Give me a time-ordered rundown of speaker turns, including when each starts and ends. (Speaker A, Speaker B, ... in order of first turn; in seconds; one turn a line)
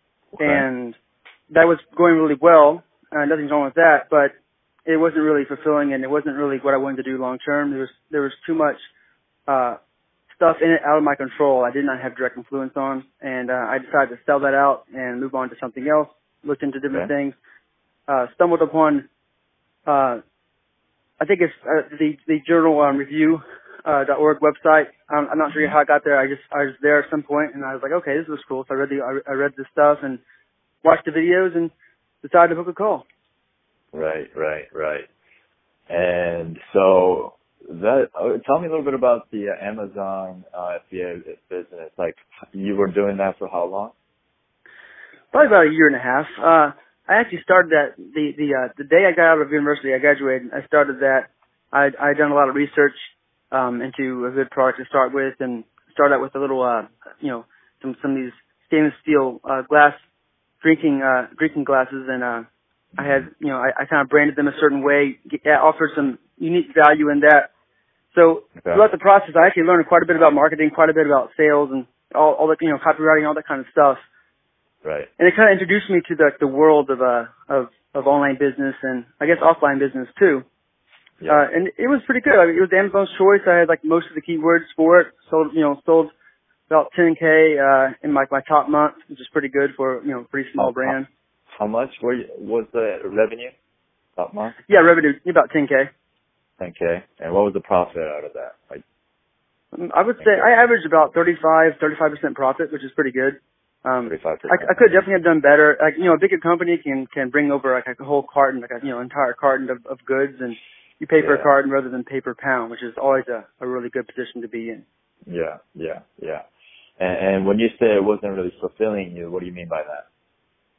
Speaker A: 0.4-0.9
Speaker A: 1.5-4.3
Speaker A: 4.8-8.8
Speaker A: 9.5-9.8
Speaker A: 10.4-17.4
Speaker A: 18.1-19.1
Speaker A: 19.9-20.2
Speaker A: 21.2-30.2
Speaker A: 30.8-33.0
Speaker B: 33.9-35.1
Speaker B: 35.9-43.9
Speaker A: 45.3-53.0
Speaker A: 53.5-60.0
Speaker A: 60.6-62.5
Speaker A: 63.0-67.5
Speaker B: 63.0-63.2
Speaker A: 68.1-74.0
Speaker B: 74.8-75.1
Speaker A: 75.2-80.4
Speaker A: 81.3-86.1
Speaker A: 86.7-91.1
Speaker B: 90.6-90.9
Speaker B: 91.5-93.5
Speaker B: 94.2-94.6
Speaker A: 94.7-95.9
Speaker B: 96.6-98.8
Speaker A: 99.7-114.8
Speaker B: 100.2-100.5
Speaker B: 104.0-105.0
Speaker B: 111.2-111.5
Speaker B: 115.3-116.5
Speaker B: 117.0-120.0